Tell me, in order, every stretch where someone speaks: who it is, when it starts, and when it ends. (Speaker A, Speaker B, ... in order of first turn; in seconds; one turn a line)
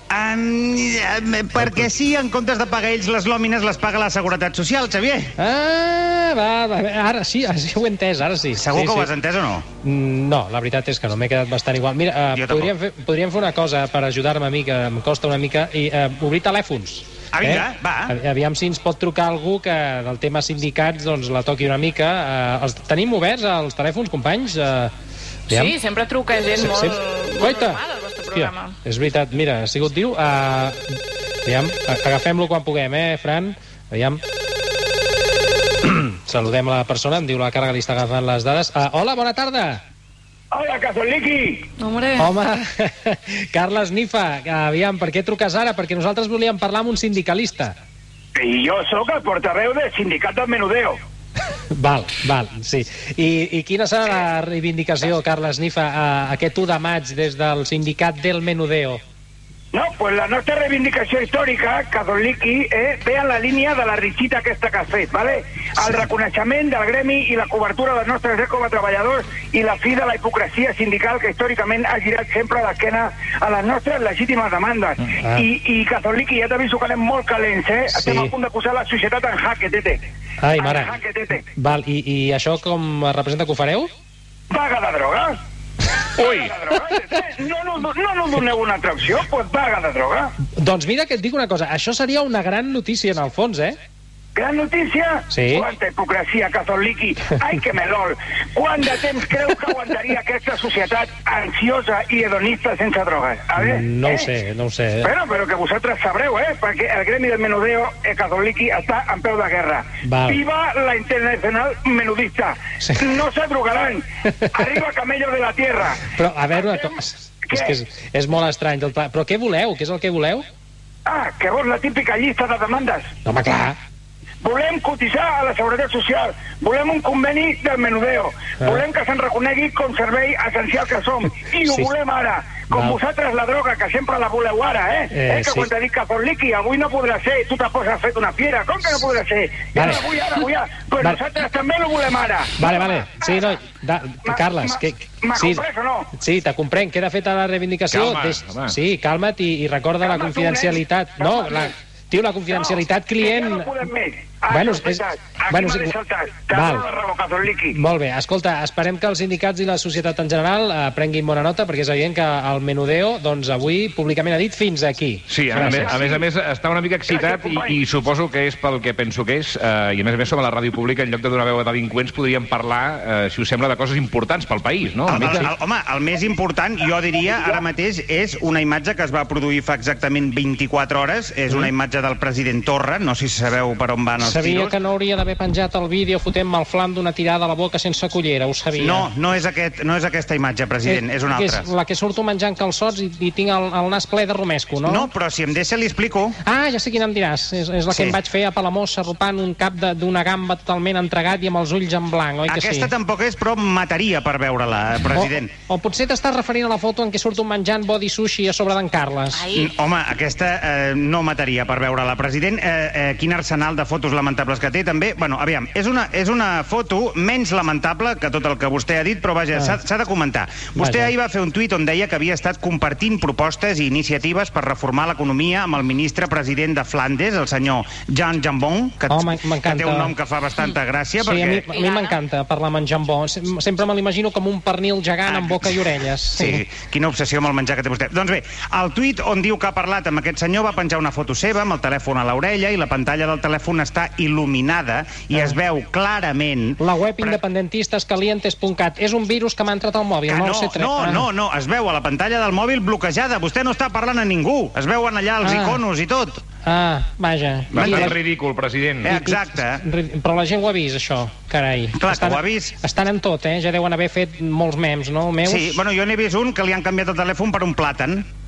Speaker A: 0.1-5.3
Speaker B: 1.6-1.9
Speaker B: 5.4-9.1
Speaker A: 8.5-9.7
Speaker B: 9.8-24.9
Speaker A: 12.3-12.7
Speaker A: 17.3-18.1
Speaker B: 25.5-25.8
Speaker C: 25.6-28.8
Speaker B: 26.6-30.8
Speaker B: 31.5-34.2
Speaker B: 35.8-39.8
Speaker D: 40.5-41.7
Speaker C: 41.8-42.3
Speaker B: 42.2-47.8
Speaker D: 48.4-51.0
Speaker B: 51.7-59.0
Speaker D: 59.7-80.0
Speaker B: 75.2-75.5
Speaker B: 77.9-78.3
Speaker B: 80.4-81.0
Speaker D: 80.6-81.4
Speaker B: 81.5-83.9
Speaker D: 84.5-85.4
Speaker D: 86.2-90.3
Speaker B: 90.6-93.8
Speaker D: 94.3-104.3
Speaker B: 95.3-95.7
Speaker B: 103.6-105.1
Speaker D: 105.0-116.0
Speaker B: 110.0-110.4
Speaker B: 116.0-120.5
Speaker D: 116.5-116.9
Speaker D: 121.1-123.1
Speaker B: 123.2-123.8
Speaker D: 124.4-143.4
Speaker B: 131.6-131.9
Speaker B: 132.7-133.0
Speaker B: 135.1-135.7
Speaker B: 139.7-140.0
Speaker B: 142.6-153.8
Speaker D: 144.2-146.1
Speaker E: 147.9-148.8
Speaker D: 150.0-151.7
Speaker D: 153.2-157.8
Speaker B: 154.5-155.9
Speaker B: 156.5-156.9
Speaker B: 157.7-166.0
Speaker E: 165.3-175.5
Speaker D: 165.7-166.2
Speaker D: 167.1-167.8
Speaker A: 175.1-184.7
Speaker B: 175.2-175.5
Speaker B: 184.2-189.1
Speaker A: 188.8-191.7
Speaker B: 190.8-195.1
Speaker A: 194.8-196.4
Speaker B: 196.4-202.9
Speaker A: 197.9-198.2
Speaker A: 202.5-205.5
Speaker B: 205.1-209.5
Speaker A: 209.5-231.7
Speaker B: 220.8-221.1
Speaker B: 229.1-230.1
Speaker B: 231.2-236.6
Speaker C: 231.7-232.1
Speaker A: 235.3-235.8
Speaker A: 236.3-247.4
Speaker B: 246.8-251.2
Speaker A: 250.3-256.4
Speaker B: 255.4-255.8
Speaker B: 256.6-258.1
Speaker A: 257.7-258.1
Speaker E: 258.0-259.1
Speaker A: 259.0-259.8
Speaker B: 259.1-265.8
Speaker A: 262.0-262.8
Speaker A: 265.4-268.3